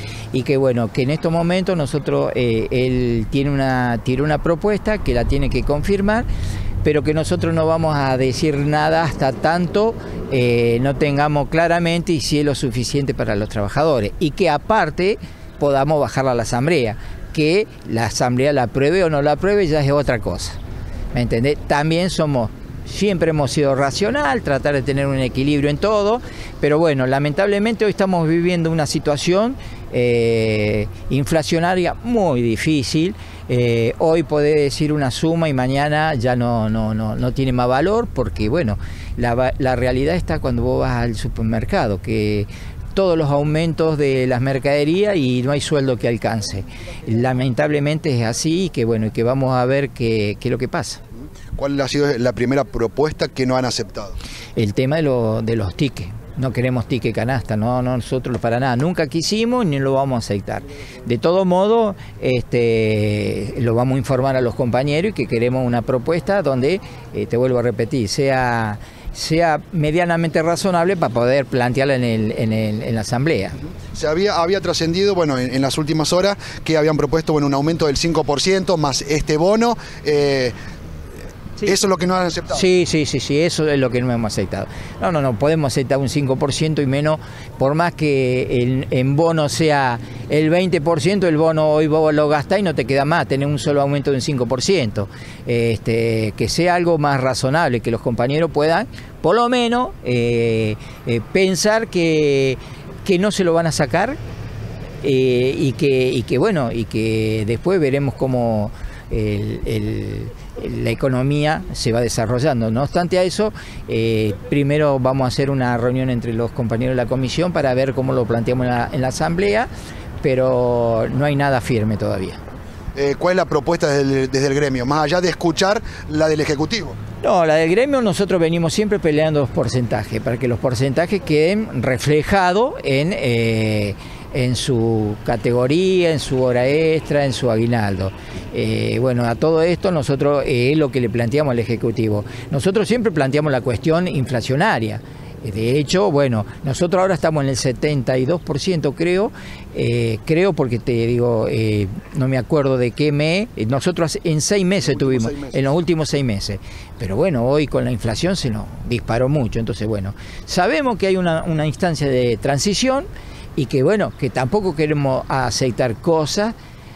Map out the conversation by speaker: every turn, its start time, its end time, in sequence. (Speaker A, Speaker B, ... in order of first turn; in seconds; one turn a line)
Speaker A: 0.3-6.3
Speaker A: 6.8-20.6
Speaker A: 21.1-51.0
Speaker B: 51.5-54.2
Speaker A: 54.5-73.6
Speaker B: 73.9-80.5
Speaker B: 81.6-82.6
Speaker A: 82.5-104.2
Speaker A: 105.0-119.7
Speaker A: 120.2-122.4
Speaker B: 122.9-127.0
Speaker A: 127.2-166.5
Speaker B: 155.1-155.5